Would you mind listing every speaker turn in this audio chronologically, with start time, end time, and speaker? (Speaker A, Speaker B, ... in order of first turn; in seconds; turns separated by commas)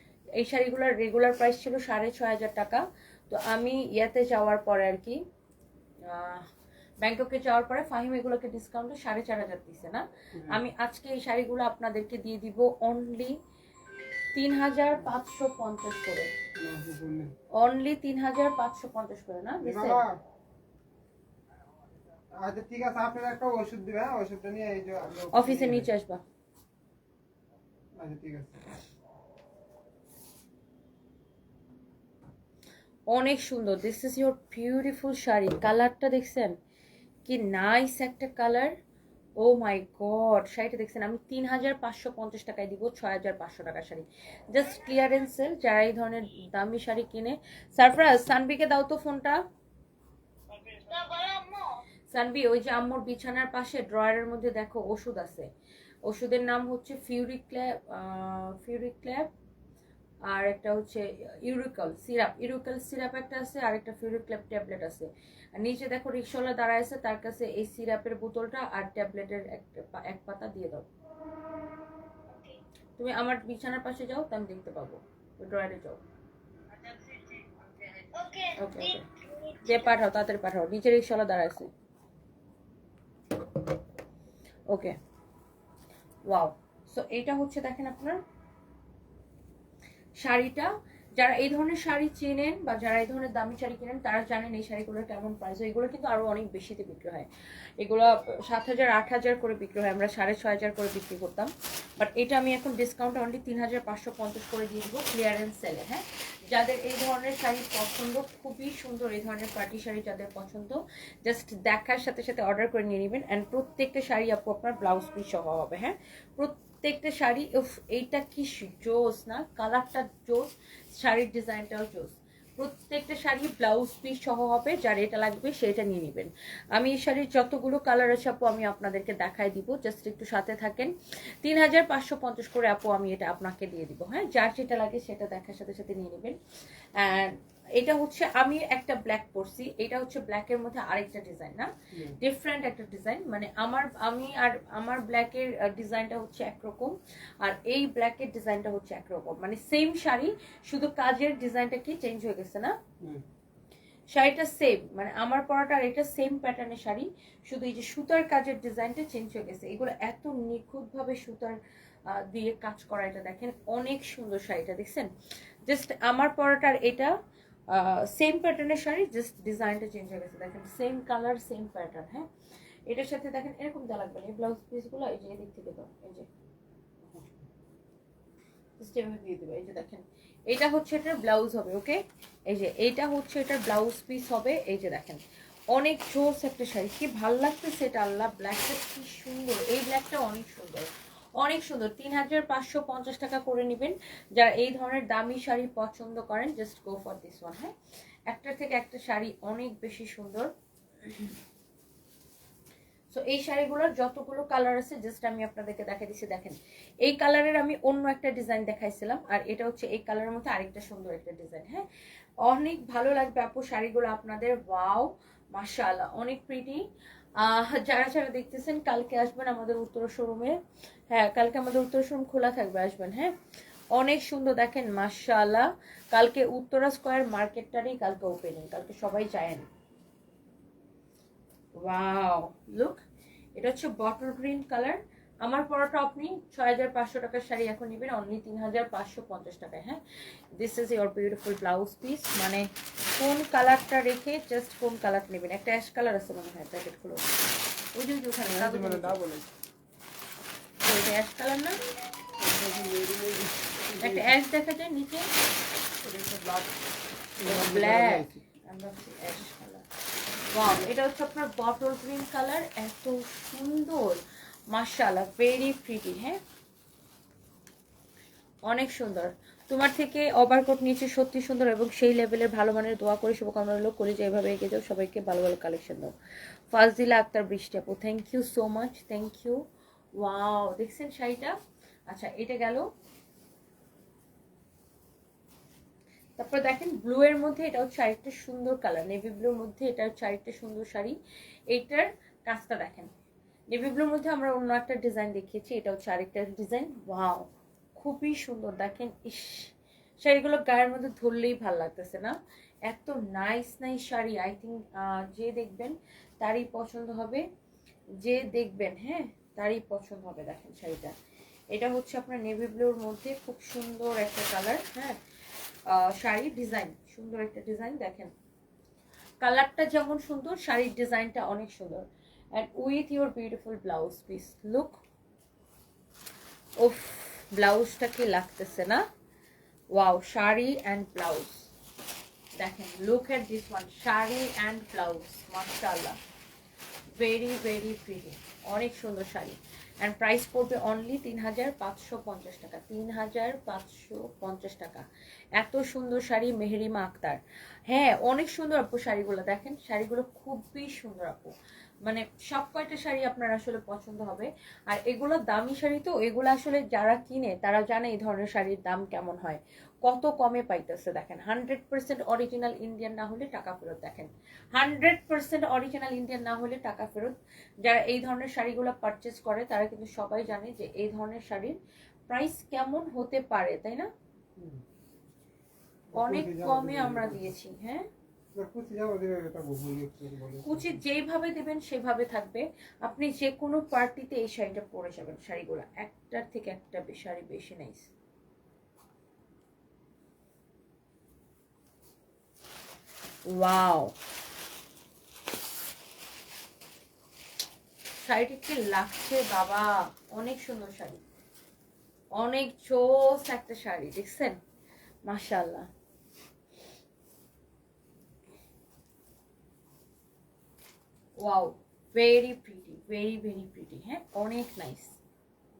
Speaker A: 0.3-5.2, Speaker A: 6.1-6.5, Speaker A: 7.0-13.4, Speaker A: 14.3-16.3, Speaker B: 16.6-17.3, Speaker A: 17.5-20.0, Speaker B: 19.6-20.2, Speaker B: 22.4-25.9, Speaker A: 25.3-26.2, Speaker B: 28.0-28.6, Speaker A: 33.1-36.5, Speaker A: 37.2-38.7, Speaker A: 39.4-49.4, Speaker C: 50.5-51.8, Speaker A: 52.1-55.5, Speaker A: 56.0-59.3, Speaker A: 60.3-70.9, Speaker C: 72.3-72.6, Speaker A: 73.0-76.0, Speaker C: 76.7-80.0, Speaker A: 78.6-79.0, Speaker A: 79.6-81.7, Speaker A: 84.7-85.0, Speaker A: 86.3-88.2, Speaker A: 90.2-97.3, Speaker A: 97.8-136.4, Speaker A: 137.0-152.8, Speaker A: 154.1-161.6, Speaker A: 162.1-165.1, Speaker A: 165.7-167.1, Speaker A: 167.7-172.3, Speaker A: 172.9-176.3, Speaker B: 177.1-177.4, Speaker A: 178.8-185.2, Speaker A: 185.7-197.7, Speaker A: 198.3-200.5, Speaker A: 201.0-201.3, Speaker A: 203.1-211.8, Speaker A: 212.4-216.8, Speaker A: 217.4-220.6, Speaker A: 221.1-223.3, Speaker A: 223.9-229.7, Speaker A: 231.8-233.0, Speaker A: 233.6-240.0, Speaker A: 240.6-247.3, Speaker A: 247.9-249.2, Speaker B: 248.4-249.5, Speaker A: 250.8-251.8, Speaker B: 252.4-254.3, Speaker A: 254.0-255.3, Speaker B: 256.0-256.7, Speaker B: 257.4-258.4, Speaker A: 257.4-259.8, Speaker A: 260.5-266.4, Speaker A: 268.6-276.1, Speaker A: 276.7-279.6, Speaker A: 280.2-281.6, Speaker A: 282.1-282.9, Speaker A: 286.4-291.1, Speaker A: 291.7-293.1, Speaker A: 293.7-302.3, Speaker A: 302.9-307.4, Speaker A: 308.2-311.1, Speaker A: 311.7-315.2, Speaker A: 315.9-318.3, Speaker A: 319.4-325.0, Speaker A: 326.8-329.0, Speaker A: 329.9-331.7, Speaker A: 332.6-336.2, Speaker A: 337.2-345.0, Speaker A: 345.6-351.5, Speaker A: 352.0-371.8, Speaker A: 372.3-374.1, Speaker B: 374.6-374.8, Speaker B: 376.1-377.5, Speaker A: 376.1-378.1, Speaker B: 378.5-381.0, Speaker A: 380.6-388.1, Speaker A: 393.5-394.1, Speaker A: 398.2-401.2, Speaker A: 402.4-404.6, Speaker A: 405.2-405.9, Speaker A: 411.4-415.2